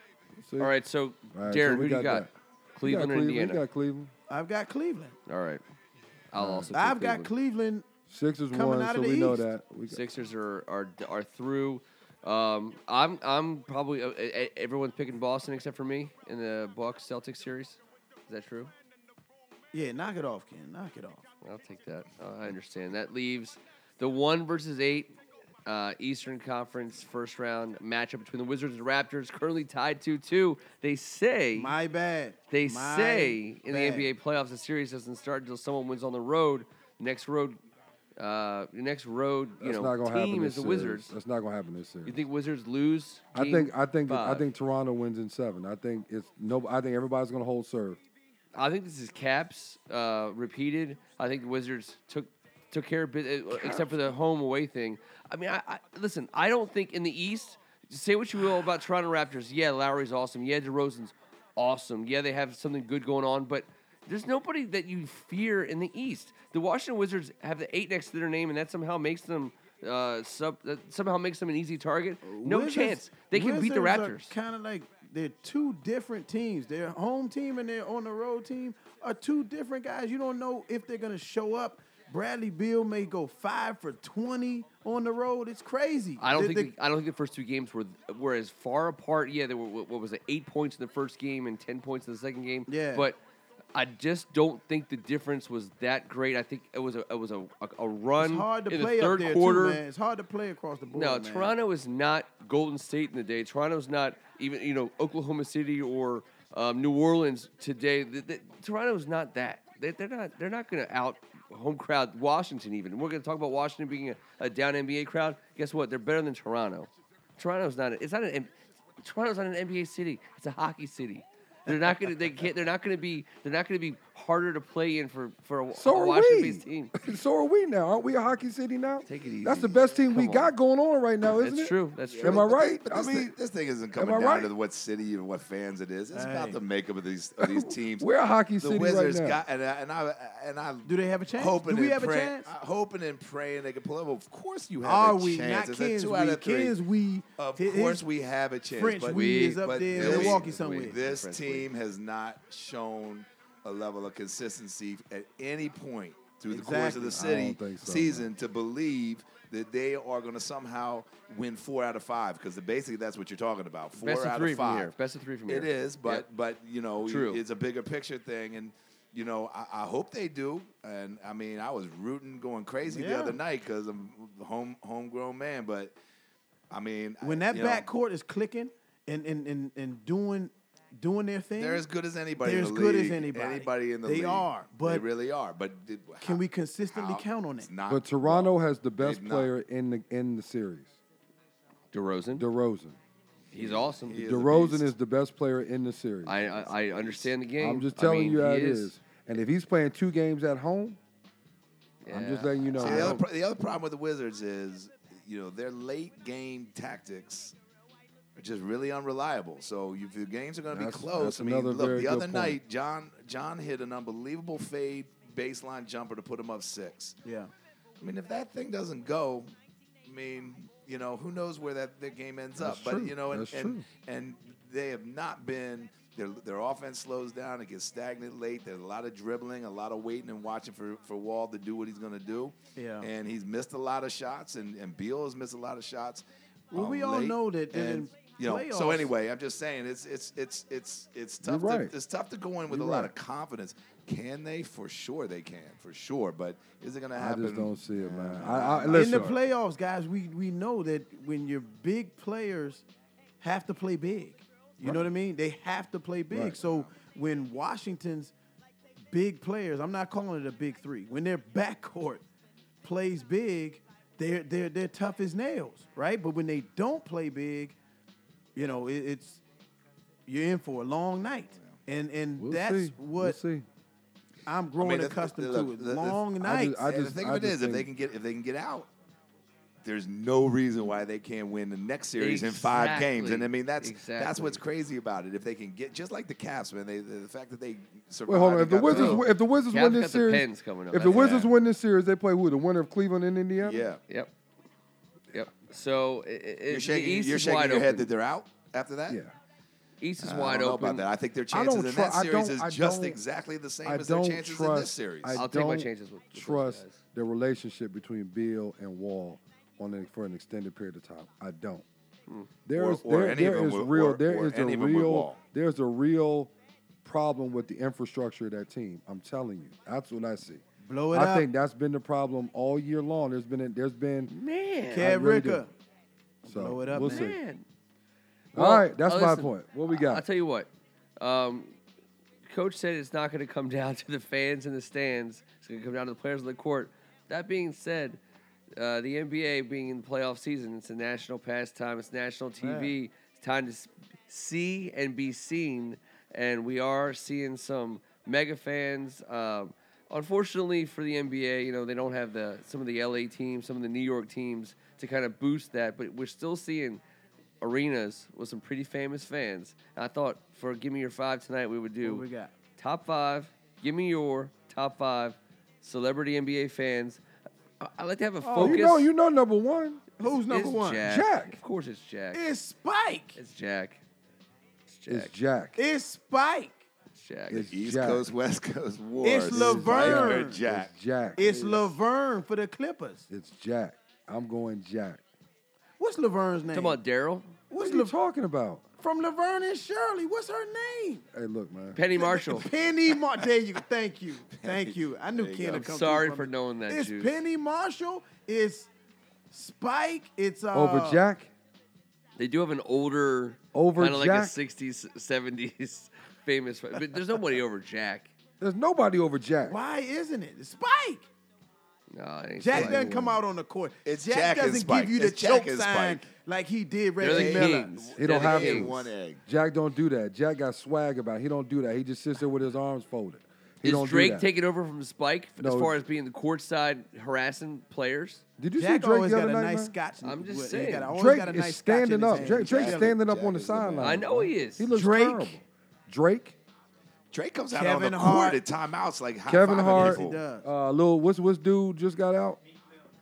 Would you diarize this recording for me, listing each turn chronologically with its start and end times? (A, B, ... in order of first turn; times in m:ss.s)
0:00.4-0:00.7 A
0:00.6-0:03.6 B
0:01.3-0:02.3 A
0:02.8-0:04.1 A
0:04.3-0:05.2 C
0:05.3-0:05.6 B
0:06.3-0:07.3 B
0:06.3-0:06.7 A
0:06.7-0:07.8 C
0:08.1-0:10.0 A
0:08.5-0:09.5 C
0:09.9-0:18.7 B
0:19.7-0:21.2 C
0:21.4-0:25.1 B
0:25.6-0:31.7 B
0:31.5-0:34.1 C
0:32.5-0:37.6 B
0:38.2-0:41.1 B
0:39.6-0:42.2 A
0:42.0-0:44.4 B
0:43.3-0:48.0 A
0:48.5-1:14.3 B
0:53.5-0:54.0 A
1:12.2-1:26.7 C
1:26.2-1:33.2 B
1:32.7-1:33.1 C
1:33.7-1:39.8 B
1:38.2-1:41.5 C
1:40.9-2:06.9 B
2:05.7-2:13.3 A
2:09.0-2:10.5 B
2:11.2-2:12.5 B
2:12.1-2:18.1 D
2:13.9-2:14.5 A
2:16.1-2:16.6 C
2:17.4-2:19.4 A
2:18.6-2:26.8 D
2:20.8-2:22.5 C
2:24.8-2:28.0 C
2:27.4-2:44.9 D
2:28.7-2:31.6 C
2:29.1-2:30.4 B
2:36.5-2:37.2 C
2:37.0-2:38.3 A
2:44.0-2:46.2 B
2:45.5-2:55.9 D
2:47.0-2:47.4 B
2:52.8-2:53.4 C
2:56.7-2:57.9 D
2:57.2-3:01.8 C
3:01.6-3:09.5 D
3:02.4-3:05.0 C
3:06.2-3:07.7 C
3:07.9-3:10.9 A
3:11.9-3:12.4 B
3:12.4-3:13.0 A
3:13.5-3:14.2 B
3:13.5-3:14.9 D
3:14.2-3:16.4 A
3:16.2-3:18.9 B
3:16.4-3:17.3 D
3:17.6-3:21.0 A
3:22.0-3:23.2 B
3:22.1-3:23.2 A
3:22.8-3:27.5 D
3:28.4-3:37.2 D
3:30.7-3:32.6 A
3:37.2-3:37.5 C
3:38.0-3:39.5 D
3:40.0-4:09.4 D
3:42.6-3:43.8 A
3:52.8-3:53.1 C
3:56.7-3:59.1 C
4:01.4-4:01.9 A
4:02.7-4:03.1 A
4:07.1-4:09.3 A
4:08.9-4:12.8 C
4:13.4-4:18.3 C
4:16.3-4:16.6 A
4:16.5-4:16.9 D
4:19.1-4:22.2 C
4:22.8-4:27.8 C
4:28.6-4:29.4 C
4:30.3-4:33.4 C
4:32.4-4:33.6 A
4:34.4-4:36.8 C
4:34.8-4:38.9 D
4:36.4-4:37.9 A
4:39.8-4:49.2 D
4:42.2-4:44.6 B
4:48.3-4:53.9 A
4:48.8-4:51.5 B
4:51.0-4:51.5 D
4:53.6-4:54.0 D
4:55.3-4:58.1 B
4:56.7-4:59.2 D
5:00.0-5:01.1 B
5:00.2-5:05.4 D
5:01.5-5:03.2 A
5:03.8-5:11.8 A
5:05.3-5:07.0 B
5:12.6-5:16.5 A
5:12.7-5:15.4 D
5:17.0-5:24.3 A
5:20.8-5:21.5 C
5:24.3-5:25.1 B
5:24.9-5:25.7 C
5:25.0-5:25.6 A
5:26.4-5:27.4 C
5:26.4-5:27.4 A
5:26.9-5:27.6 B
5:28.5-5:30.7 B
5:28.5-5:30.2 A
5:31.2-5:31.8 B
5:32.4-5:38.2 B
5:38.8-5:57.0 B
5:42.6-5:42.9 C
5:57.6-6:02.2 B
6:02.0-6:02.5 C
6:02.8-6:07.2 B
6:07.8-6:09.1 B
6:08.4-6:08.8 C
6:08.6-6:10.0 A
6:10.2-6:11.0 C
6:10.5-6:12.4 B
6:11.0-6:11.6 A
6:12.3-6:13.4 C
6:13.4-6:14.0 B
6:14.9-6:15.3 B
6:15.1-6:15.8 A
6:15.8-6:16.8 C
6:17.1-6:17.7 B
6:17.5-6:18.2 A
6:17.6-6:20.9 D
6:19.2-6:20.6 C
6:19.5-6:21.9 A
6:21.4-6:23.2 C
6:23.3-6:25.2 A
6:26.0-6:27.0 C
6:26.7-6:27.5 B
6:27.7-6:28.1 C
6:27.8-6:28.8 A
6:29.0-6:31.2 C
6:31.3-6:32.0 A
6:31.9-6:32.7 B
6:32.1-6:38.9 C
6:34.5-6:35.8 D
6:35.7-6:37.4 B
6:39.5-6:41.2 C
6:40.7-6:41.5 A
6:42.4-6:48.3 B
6:43.7-6:44.6 A
6:48.6-6:49.8 A
6:49.6-6:51.3 C
6:52.1-6:53.0 B
6:52.6-6:58.2 C
6:52.7-6:53.4 A
6:54.0-6:56.3 D
6:57.2-6:59.0 B
6:57.3-6:59.4 D
6:58.2-7:04.5 A
7:03.8-7:08.4 B
7:05.6-7:06.0 A
7:08.6-7:09.9 A
7:08.8-7:13.1 C
7:10.2-7:11.1 B
7:11.0-7:16.6 A
7:12.3-7:14.2 D
7:14.0-7:14.9 B
7:14.9-7:15.6 C
7:17.3-7:20.4 D
7:17.7-7:18.6 C
7:19.4-7:22.6 A
7:19.8-7:20.7 C